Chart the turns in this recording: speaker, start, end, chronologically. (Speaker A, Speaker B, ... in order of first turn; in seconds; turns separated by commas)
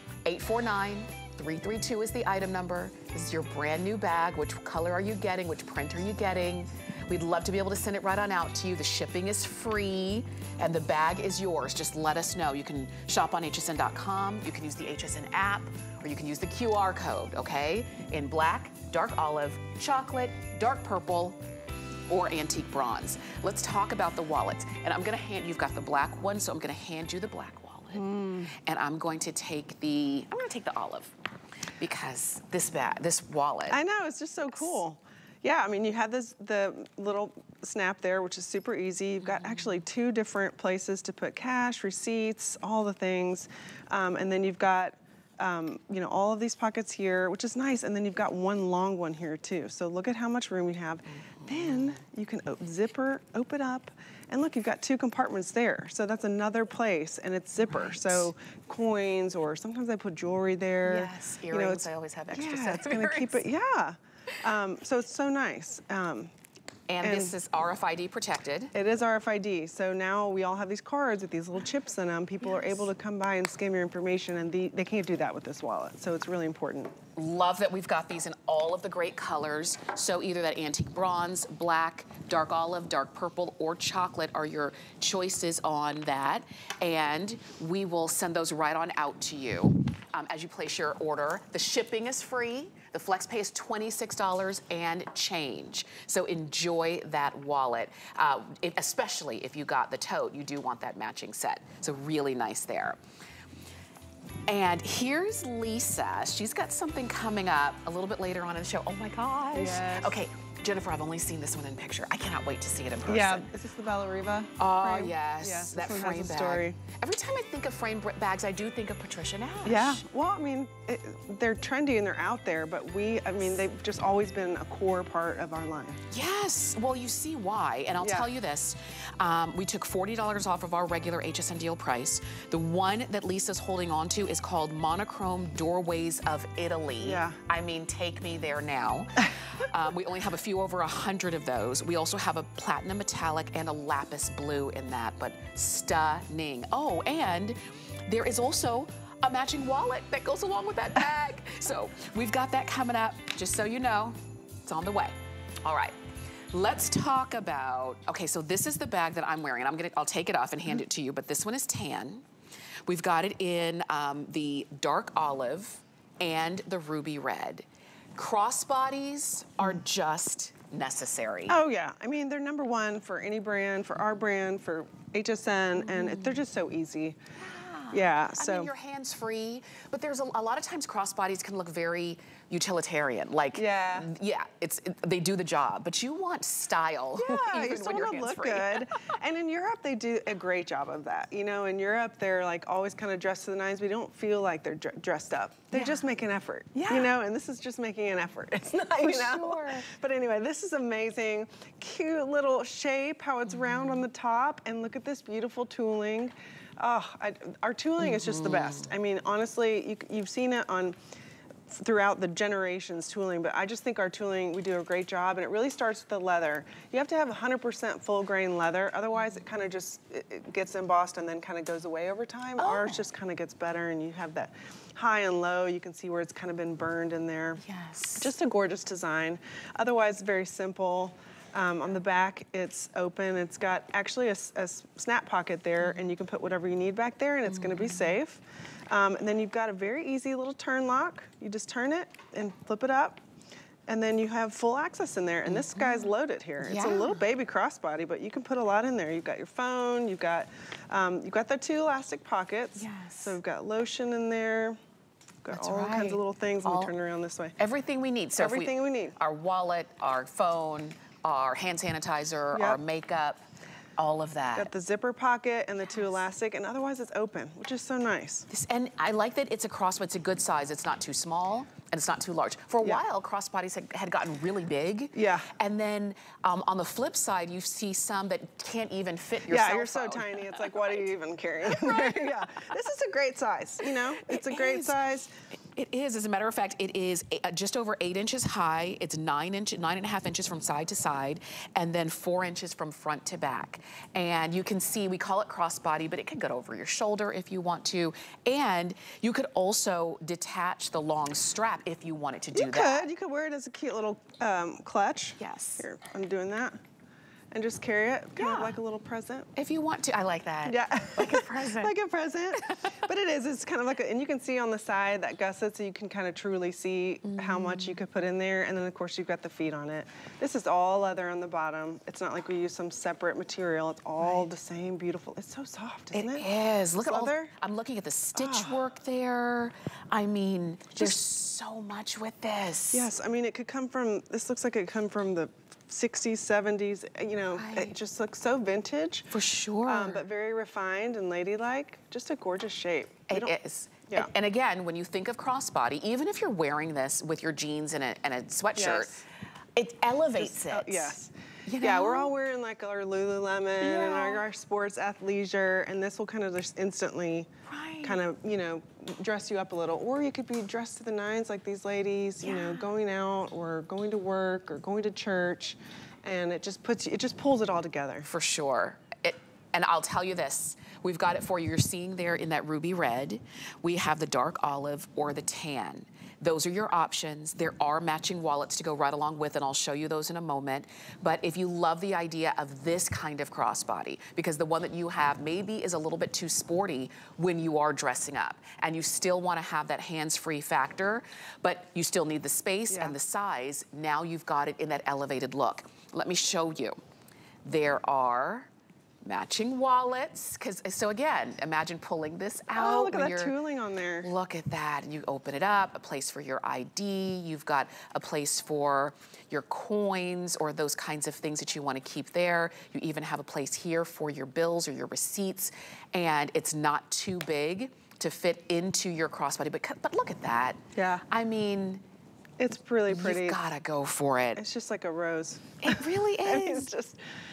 Speaker A: 0.2-21.4, Speaker A: 22.1-31.1, Speaker B: 27.9-28.5, Speaker A: 31.8-33.8, Speaker B: 33.7-66.3, Speaker A: 39.2-39.8, Speaker A: 51.1-52.0, Speaker A: 57.6-58.3, Speaker A: 60.8-63.4, Speaker A: 66.9-68.7, Speaker B: 67.0-67.3, Speaker B: 68.7-76.9, Speaker A: 77.2-103.0, Speaker A: 104.5-113.5, Speaker B: 109.5-110.2, Speaker B: 113.0-116.8, Speaker A: 114.6-120.0, Speaker B: 119.6-126.0, Speaker A: 126.1-155.9, Speaker B: 128.0-128.3, Speaker B: 137.0-137.4, Speaker A: 156.5-162.2, Speaker A: 162.9-171.6, Speaker B: 171.5-177.2, Speaker A: 175.8-176.4, Speaker A: 177.4-189.1, Speaker B: 177.9-178.7, Speaker B: 183.5-184.1, Speaker B: 187.2-211.0, Speaker A: 195.7-196.1, Speaker A: 196.7-197.1, Speaker A: 198.8-199.8, Speaker A: 203.5-204.0, Speaker A: 208.0-208.9, Speaker B: 211.7-227.6, Speaker A: 222.6-223.0, Speaker A: 227.6-228.3, Speaker B: 228.2-243.2, Speaker A: 237.5-238.2, Speaker B: 243.9-254.8, Speaker A: 245.5-247.2, Speaker A: 252.8-253.4, Speaker B: 255.4-257.6, Speaker A: 255.5-256.9, Speaker A: 257.6-263.4, Speaker B: 258.3-259.1, Speaker B: 262.5-262.8, Speaker A: 264.0-264.7, Speaker B: 264.5-268.5, Speaker A: 268.5-281.0, Speaker B: 275.1-275.5, Speaker B: 279.5-285.3, Speaker A: 281.7-282.3, Speaker A: 284.2-284.9, Speaker A: 285.7-303.1, Speaker B: 302.5-306.8, Speaker A: 305.4-305.8, Speaker B: 307.5-309.5, Speaker A: 308.4-308.8, Speaker A: 309.5-311.9, Speaker B: 310.6-326.5, Speaker A: 312.6-313.0, Speaker A: 317.2-318.0, Speaker A: 324.2-324.5, Speaker A: 326.1-333.1, Speaker B: 327.0-327.5, Speaker B: 328.3-328.8, Speaker B: 332.9-339.3, Speaker A: 337.6-337.9, Speaker A: 339.3-340.2, Speaker B: 339.8-343.6, Speaker A: 343.3-349.2, Speaker B: 348.8-349.2, Speaker A: 349.8-352.3, Speaker B: 350.4-357.5, Speaker A: 353.8-354.4, Speaker A: 357.6-358.2, Speaker B: 358.0-368.3, Speaker A: 362.4-362.8, Speaker A: 368.2-397.0, Speaker B: 392.9-393.2, Speaker A: 397.6-398.7, Speaker A: 399.2-403.5, Speaker B: 402.7-404.3, Speaker A: 404.2-422.0, Speaker B: 420.9-421.2, Speaker B: 422.6-423.6, Speaker A: 423.1-424.6, Speaker B: 424.6-427.2, Speaker A: 425.8-426.9